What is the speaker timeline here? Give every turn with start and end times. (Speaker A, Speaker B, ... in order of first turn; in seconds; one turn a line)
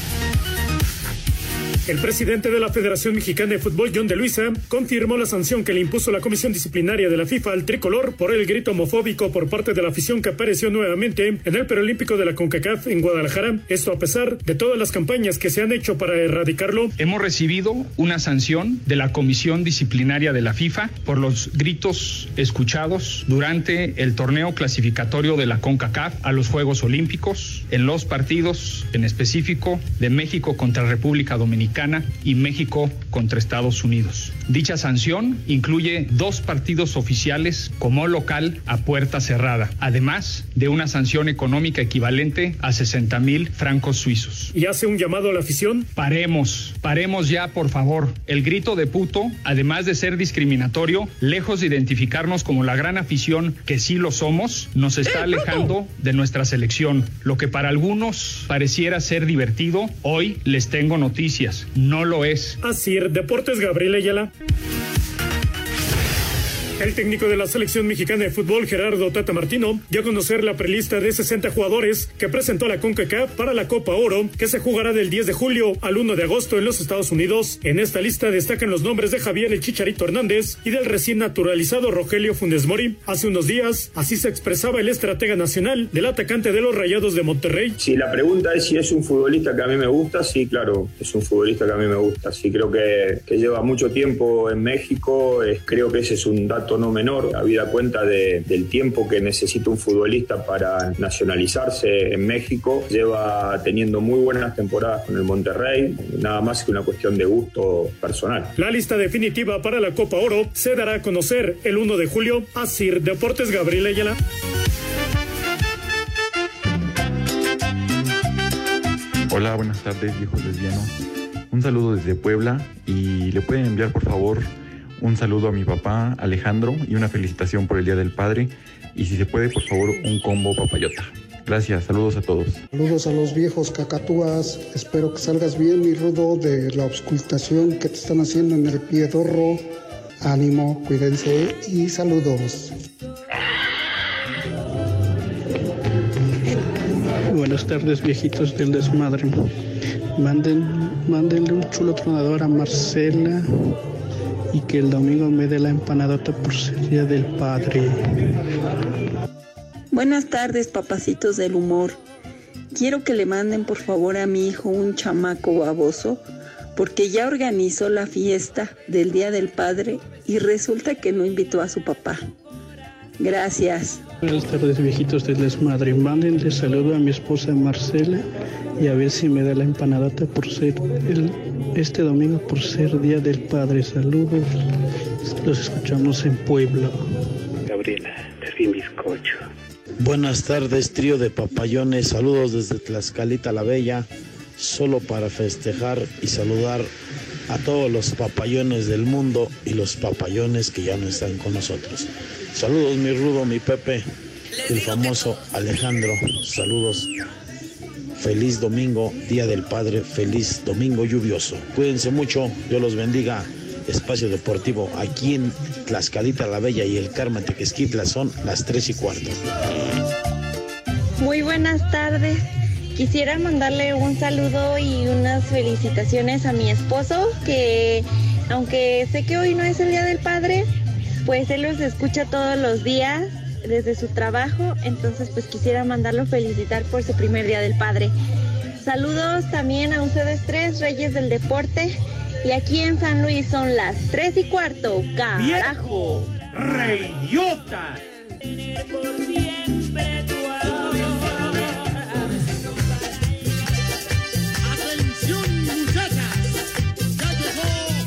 Speaker A: 1.9-16.9
Speaker B: 17.0-44.5
Speaker A: 44.5-45.9
Speaker B: 46.0-62.6
Speaker A: 62.6-64.3
Speaker A: 66.8-87.8
Speaker C: 87.8-108.5
Speaker A: 108.6-114.2
Speaker D: 119.3-120.9
Speaker D: 121.5-132.6
Speaker E: 132.7-142.7
Speaker F: 147.3-149.3
Speaker F: 150.2-153.4
Speaker F: 154.5-157.9
Speaker G: 159.9-162.0
Speaker G: 162.7-166.2
Speaker G: 166.8-172.2
Speaker G: 173.2-174.0
Speaker F: 174.2-178.2
Speaker F: 178.8-184.5
Speaker F: 185.4-186.9
Speaker H: 190.0-196.9
Speaker H: 197.5-204.1
Speaker H: 204.6-207.1
Speaker H: 208.2-219.4
Speaker I: 221.2-222.4
Speaker I: 222.9-230.7
Speaker I: 231.2-238.1
Speaker I: 238.8-246.2
Speaker J: 245.3-248.0